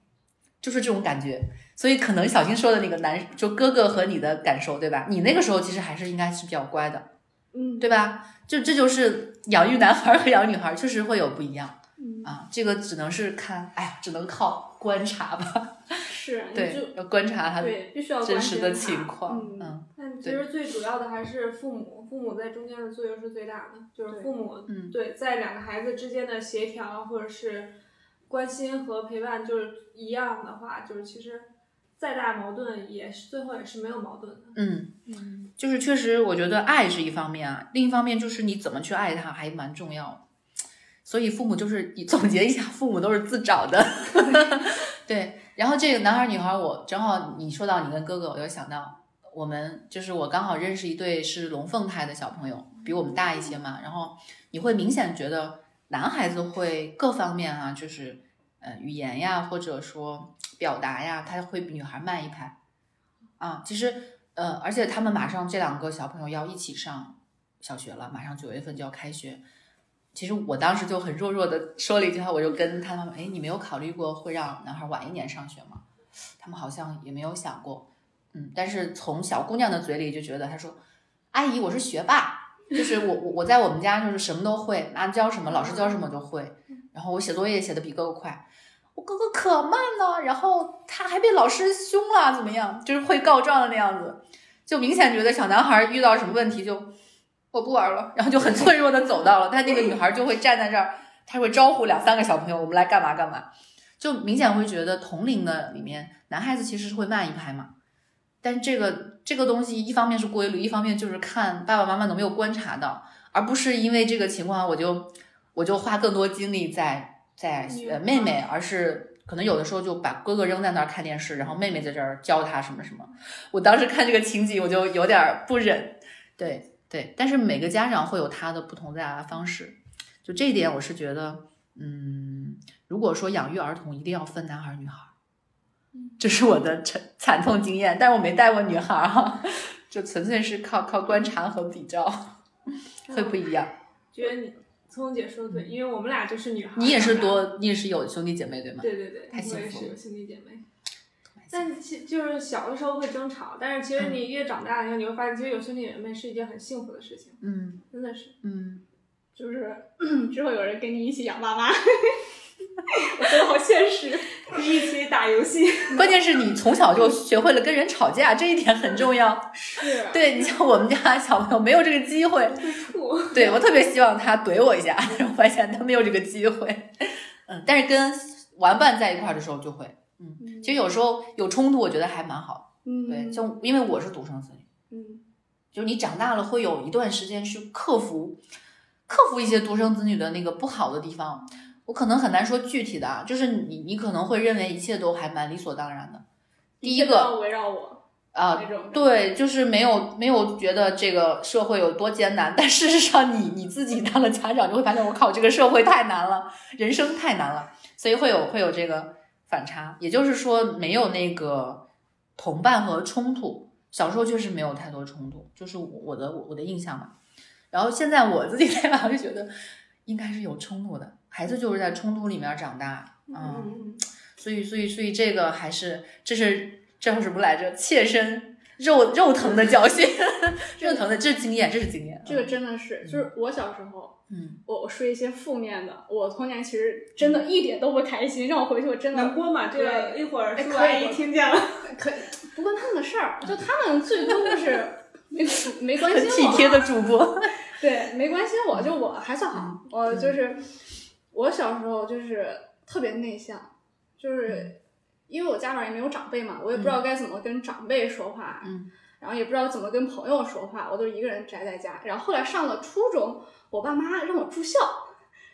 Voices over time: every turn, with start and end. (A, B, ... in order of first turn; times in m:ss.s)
0:00.6-0:07.1 A
0:07.5-0:08.0 B
0:07.8-0:20.4 A
0:12.0-0:12.3 B
0:16.1-0:17.0 B
0:17.6-0:19.8 B
0:20.0-0:27.8 C
0:24.7-0:25.0 A
0:28.3-0:34.6 C
0:34.6-0:40.2 A
0:41.0-1:02.6 A
1:03.4-1:09.4 A
1:10.1-1:15.8 A
1:16.4-1:20.8 A
1:21.3-1:36.9 A
1:37.5-1:43.5 A
1:44.0-1:47.7 A
1:48.4-2:15.1 A
1:57.6-1:58.4 C
2:16.2-2:22.3 A
2:23.1-2:23.7 A
2:23.1-2:23.4 C
2:24.1-2:27.5 C
2:26.8-2:30.0 A
2:28.8-2:30.6 C
2:31.5-2:38.4 C
2:37.4-2:37.8 A
2:38.4-2:38.8 A
2:39.4-2:42.2 B
2:42.9-2:44.4 B
2:44.4-2:46.0 C
2:45.9-2:52.7 A
2:49.5-2:50.5 B
2:52.5-2:53.5 C
2:53.3-3:04.7 A
3:00.4-3:00.8 B
3:02.8-3:03.5 B
3:04.9-3:05.2 B
3:05.7-3:08.4 A
3:09.1-3:16.2 A
3:16.8-3:19.1 B
3:16.8-3:17.4 A
3:18.3-3:31.8 A
3:32.4-3:37.1 A
3:37.7-3:39.5 A
3:40.1-3:43.8 A
3:43.3-3:44.0 C
3:44.4-3:52.5 A
3:50.8-3:51.0 B
3:52.2-4:01.2 B
3:54.3-3:54.6 A
3:57.2-3:57.4 A
3:59.1-4:01.9 C
4:01.8-4:06.9 B
4:06.0-4:07.5 A
4:07.7-4:10.7 B
4:09.6-4:10.4 A
4:11.3-4:14.8 B
4:15.3-4:25.1 B
4:16.7-4:17.0 A
4:18.6-4:18.9 A